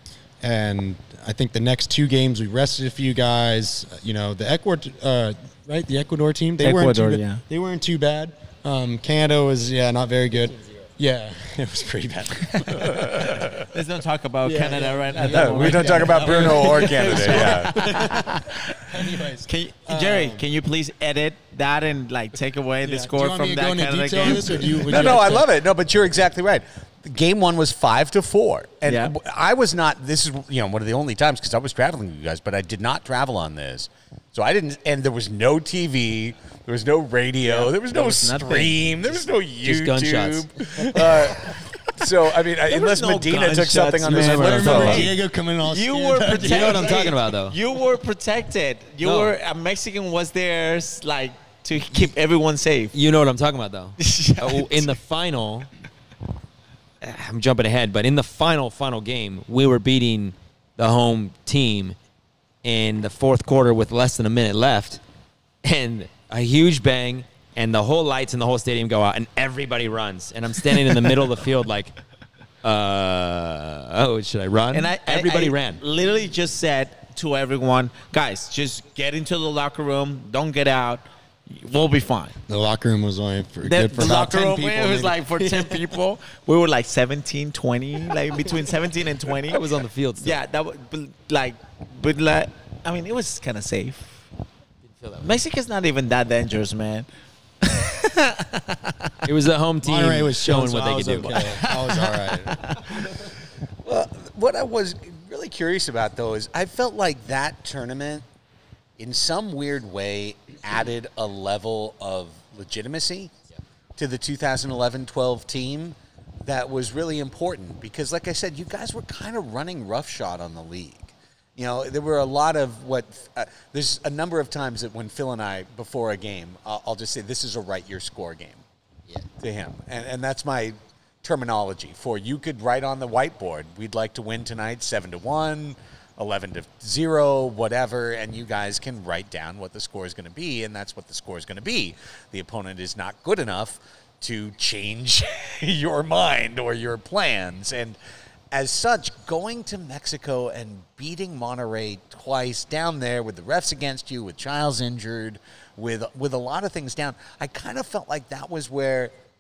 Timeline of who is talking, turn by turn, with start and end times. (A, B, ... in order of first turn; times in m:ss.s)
0:00.4-0:13.5 A
0:06.6-0:07.4 B
0:13.7-0:18.9 B
0:14.4-0:18.4 A
0:15.3-0:17.8 C
0:18.9-0:20.4 A
0:19.4-0:25.4 B
0:22.8-0:25.5 A
0:24.9-0:45.1 C
0:28.8-0:29.1 B
0:37.4-0:39.3 B
0:39.6-0:40.5 D
0:42.7-0:52.9 B
0:44.0-0:47.1 A
0:46.4-0:47.6 D
0:49.0-0:49.4 D
0:52.9-0:55.7 D
0:54.0-0:54.9 B
0:57.0-1:02.0 D
1:02.6-1:05.0 D
1:05.6-1:11.9 D
1:12.6-1:15.8 D
1:14.7-1:22.4 B
1:22.5-1:25.9 A
1:23.6-1:29.6 B
1:29.5-1:30.4 D
1:30.2-1:34.2 B
1:35.0-1:35.3 D
1:35.2-1:37.1 B
1:37.6-1:39.1 B
1:39.2-1:41.4 D
1:39.8-1:42.7 A
1:41.6-1:42.9 B
1:43.8-1:48.2 C
1:49.0-1:53.3 C
1:54.0-2:08.6 C
2:09.4-2:28.0 C
2:28.5-2:39.1 C